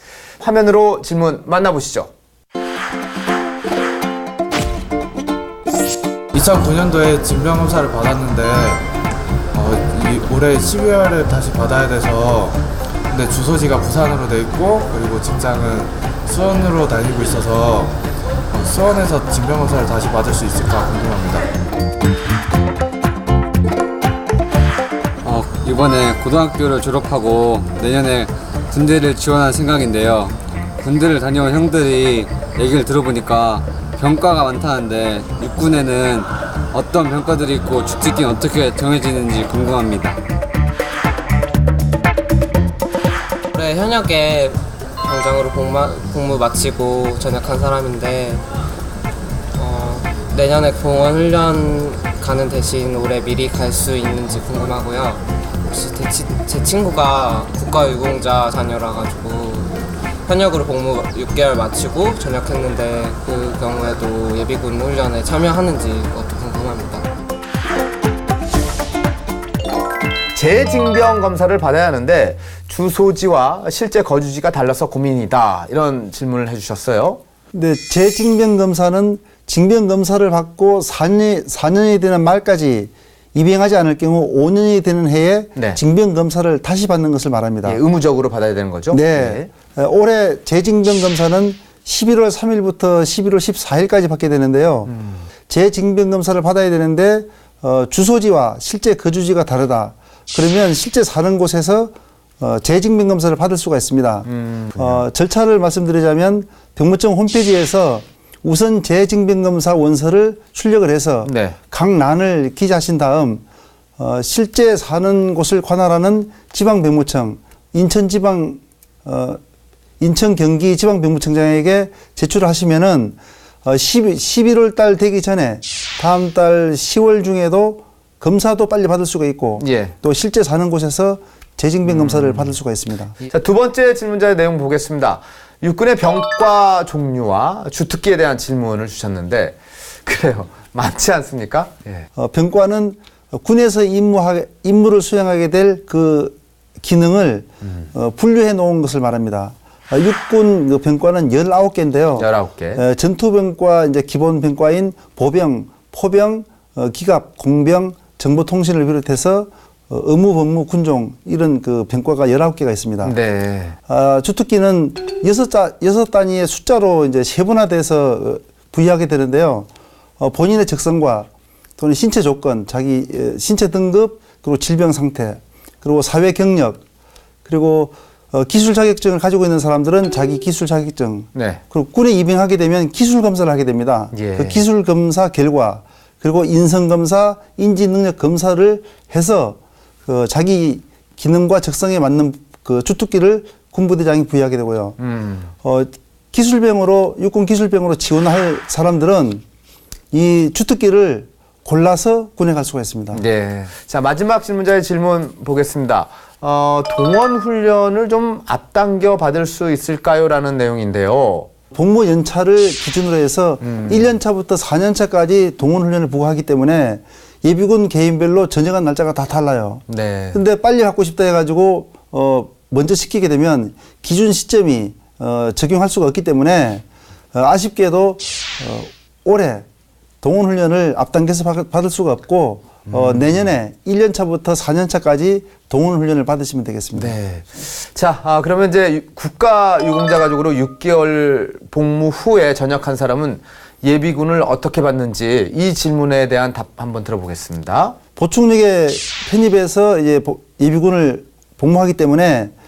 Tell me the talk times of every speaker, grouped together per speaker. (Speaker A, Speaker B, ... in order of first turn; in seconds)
Speaker A: 0.4-2.1, 70.3-77.2, 85.5-85.8, 87.6-89.5, 94.9-95.2, 104.3-105.0, 111.2-111.6, 129.6-129.9, 131.9-132.5, 133.2-142.1, 152.2-152.8, 163.0-163.8, 181.3-181.6, 184.1-184.7, 195.0-195.5, 203.1-211.5, 213.6-214.1, 219.9-220.4, 232.9-233.4, 237.0-248.0
Speaker B: 6.3-8.8, 9.6-12.6, 13.1-17.9, 18.5-21.5
Speaker C: 25.2-40.2
Speaker D: 43.5-48.5, 49.5-67.1
Speaker E: 77.5-87.8, 88.9-94.9, 95.5-113.4, 114.0-119.4, 120.0-133.2, 142.2-163.2, 163.9-176.8, 177.5-195.0, 195.6-199.4, 200.1-203.2, 211.7-229.7, 230.2-237.1, 248.2-252.5